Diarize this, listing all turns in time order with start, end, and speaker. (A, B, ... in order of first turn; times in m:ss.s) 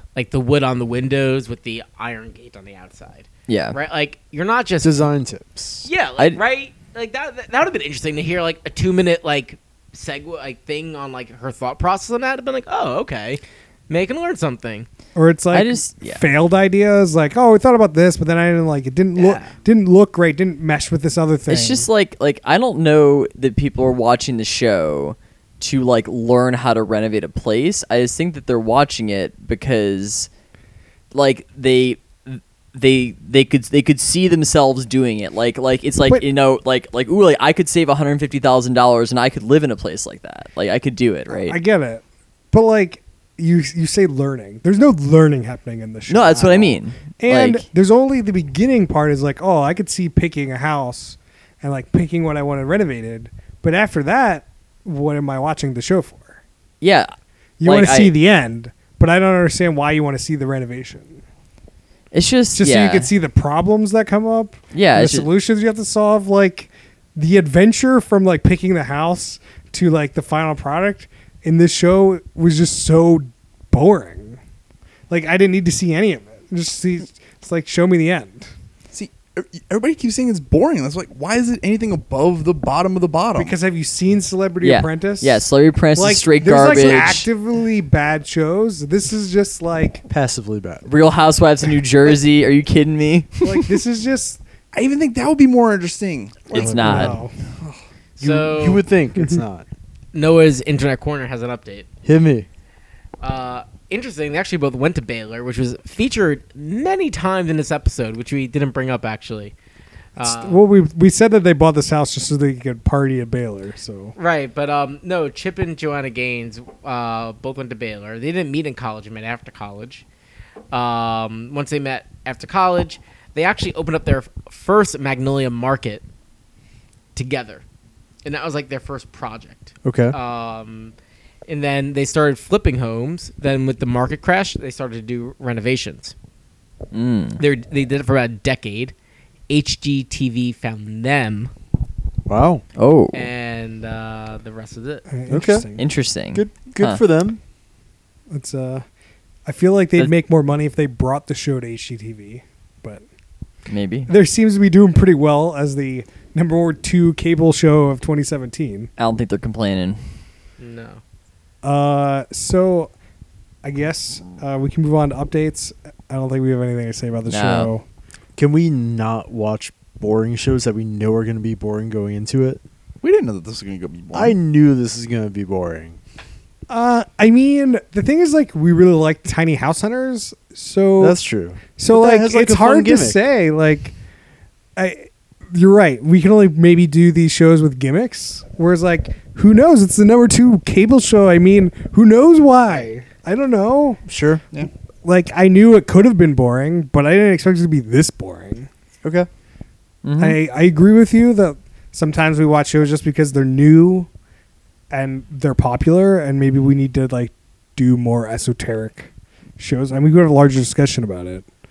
0:00.1-0:05.0 A
0:03.5-0:03.8 B
0:04.8-0:05.9 C
0:05.8-0:14.9 A
0:15.1-0:21.9 D
0:15.5-0:16.2 B
0:19.2-0:19.5 A
0:21.5-0:30.3 B
0:31.1-0:41.6 B
0:41.3-0:56.4 D
0:46.1-0:47.6 B
0:56.8-0:58.1 B
0:57.6-1:01.2 D
1:02.1-1:03.1 B
1:02.5-1:14.4 D
1:04.7-1:05.3 B
1:15.1-1:18.5 D
1:18.9-1:23.5 E
1:23.4-1:25.4 D
1:24.6-1:27.3 B
1:26.0-1:30.0 D
1:30.1-1:30.9 C
1:30.9-1:33.6 B
1:33.4-1:34.4 D
1:34.7-1:36.6 E
1:36.5-1:37.4 D
1:36.5-1:37.2 B
1:36.8-1:37.1 C
1:38.2-1:38.8 A
1:38.2-1:39.7 C
1:40.1-1:41.9 A
1:42.0-1:42.5 C
1:43.2-1:49.5 A
1:50.2-1:50.6 A
1:50.2-1:54.1 D
1:54.2-2:00.0 A
2:00.7-2:06.0 A
2:07.1-2:07.6 A
2:08.2-2:10.9 A
2:09.8-2:10.2 C
2:11.5-2:16.1 A
2:16.9-2:17.4 B
2:17.4-2:18.9 A
2:19.5-2:21.5 A
2:22.3-2:22.6 C
2:22.8-2:23.3 B
2:23.1-2:25.1 A
2:25.1-2:25.8 D
2:25.3-2:25.7 C
2:25.8-2:27.0 B
2:26.3-2:27.4 C
2:28.3-2:28.8 D
2:29.4-2:33.0 D
2:33.7-2:34.1 B
2:34.1-2:38.9 D
2:39.0-2:40.0 B
2:40.6-2:41.0 A
2:41.6-2:42.9 D
2:43.6-2:47.8 D
2:47.3-2:47.7 B
2:48.4-2:52.6 C
2:53.0-2:54.4 E
2:54.1-2:56.0 C
2:56.7-3:01.2 D
3:01.0-3:03.2 C
3:01.8-3:04.0 D
3:04.8-3:14.0 D
3:14.1-3:14.4 C
3:15.0-3:18.7 D
3:20.0-3:20.4 B
3:20.2-3:24.1 D
3:24.9-3:31.4 D